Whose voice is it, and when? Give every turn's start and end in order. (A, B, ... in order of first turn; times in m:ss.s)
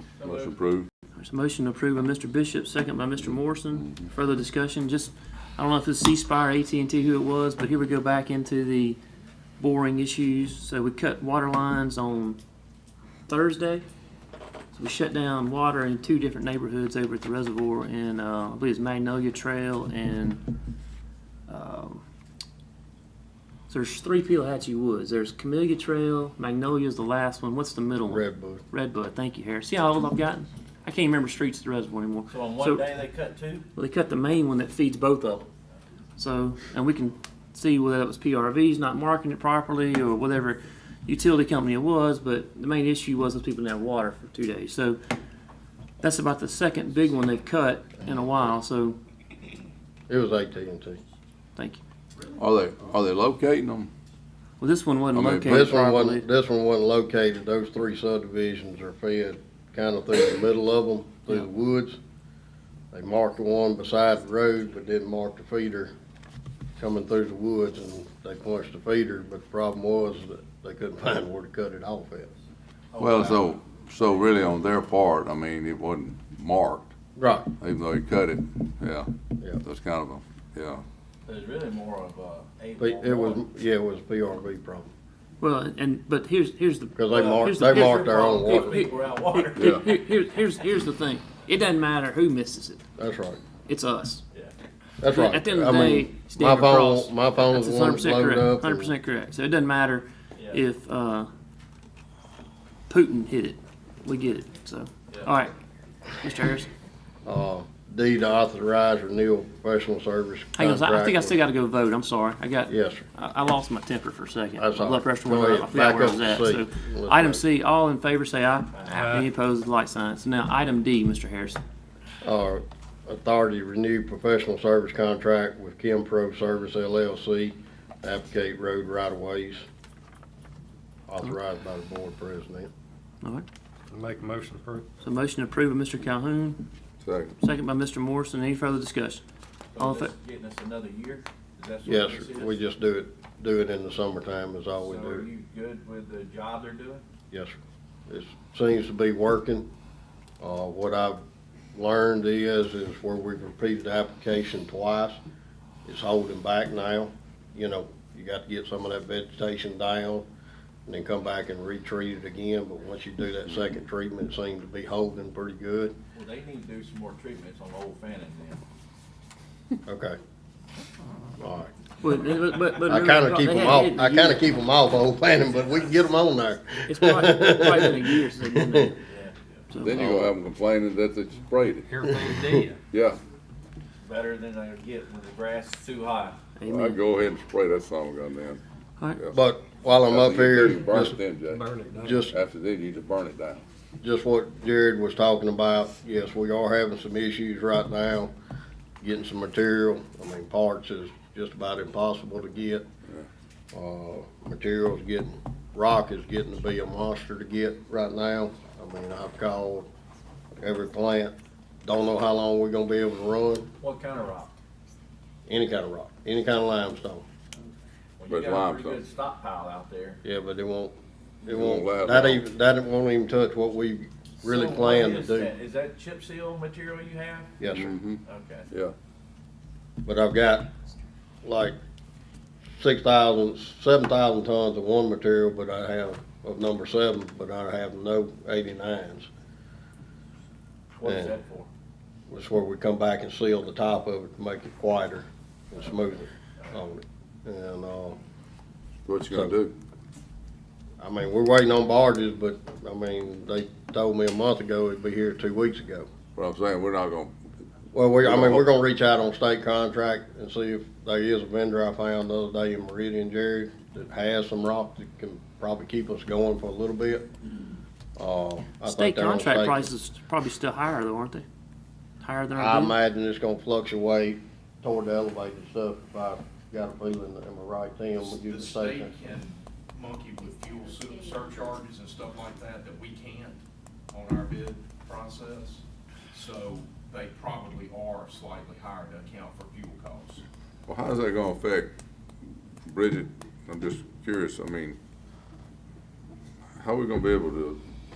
0:00.2-0:00.5 A
0:00.2-0:00.9 B
0:01.2-0:09.0 C
0:03.8-0:04.0 B
0:09.6-0:12.4 C
0:13.3-0:13.8 C
0:14.7-0:20.4 C
0:21.5-0:22.0 C
0:23.7-0:32.8 C
0:28.1-0:28.6 D
0:32.3-0:33.7 A
0:33.8-0:35.5 C
0:36.2-0:45.0 C
0:46.0-0:49.0 C
0:50.1-0:51.0 D
0:51.6-0:51.8 C
0:52.4-0:53.9 B
0:54.6-0:56.2 C
0:55.1-0:55.6 B
0:55.4-1:02.0 D
1:02.9-1:05.9 D
1:06.8-1:12.3 D
1:12.9-1:13.6 A
1:13.0-1:16.9 B
1:17.2-1:17.5 D
1:17.6-1:19.1 B
1:19.6-1:20.8 B
1:21.3-1:23.4 A
1:22.8-1:24.9 D
1:25.4-1:32.8 C
1:27.0-1:28.8 D
1:27.1-1:30.0 A
1:29.6-1:29.9 B
1:33.0-1:33.4 D
1:33.6-1:34.2 C
1:35.0-1:38.9 D
1:35.1-1:41.3 C
1:40.4-1:40.6 A
1:42.9-1:45.5 C
1:46.2-1:46.7 C
1:47.2-1:51.4 D
1:50.6-2:01.6 C
1:52.7-1:53.1 D
1:54.6-1:57.4 D
1:58.7-1:59.2 A
1:58.9-1:59.3 E
2:02.2-2:09.7 D
2:11.1-2:12.7 D
2:13.9-2:14.9 E
2:15.0-2:16.7 C
2:17.0-2:17.4 B
2:17.4-2:19.2 C
2:19.8-2:22.6 A
2:19.8-2:20.1 C
2:21.9-2:25.3 D
2:24.8-2:27.0 A
2:28.1-2:29.7 D
2:30.4-2:31.2 D
2:31.7-2:35.2 D
2:35.8-2:40.3 D
2:40.9-2:46.0 D
2:46.1-2:48.6 A
2:49.9-2:50.2 D
2:51.4-2:51.7 D
2:52.0-2:54.4 C
2:52.8-2:59.0 D
2:56.9-2:59.0 C
2:59.1-2:59.6 A
2:59.7-3:00.0 C
2:59.8-3:01.9 B
2:59.9-3:00.3 D
3:01.9-3:02.8 E
3:02.1-3:02.7 D
3:02.9-3:03.2 B
3:04.0-3:06.4 A
3:06.6-3:07.0 C
3:06.7-3:08.6 B
3:09.3-3:11.2 D
3:10.1-3:11.7 B
3:11.5-3:12.2 E
3:12.0-3:12.4 D
3:12.2-3:13.6 B
3:14.0-3:18.3 D
3:19.0-3:22.9 D
3:23.7-3:29.9 D
3:30.6-3:33.7 D
3:33.8-3:34.6 A
3:35.5-3:37.2 D
3:38.2-3:40.2 A
3:38.3-3:39.0 B
3:40.2-3:45.5 D
3:41.4-3:42.4 B
3:44.4-3:47.5 A
3:47.6-3:47.9 D
3:47.7-3:48.9 B
3:48.3-3:48.7 A
3:50.0-3:50.7 D
3:51.4-3:51.8 D
3:52.8-3:59.3 D
4:00.9-4:01.7 A
4:01.0-4:01.4 D
4:02.3-4:08.2 D
4:09.1-4:09.8 B
4:11.0-4:16.1 D
4:16.4-4:17.4 B
4:17.9-4:27.3 D
4:18.2-4:18.6 B
4:28.2-4:29.9 D
4:28.8-4:31.5 C
4:32.2-4:33.0 C
4:32.6-4:39.1 D
4:38.2-4:43.6 F
4:44.1-4:50.4 F
4:50.9-4:51.9 B
4:52.9-4:55.0 B
4:56.8-4:57.8 B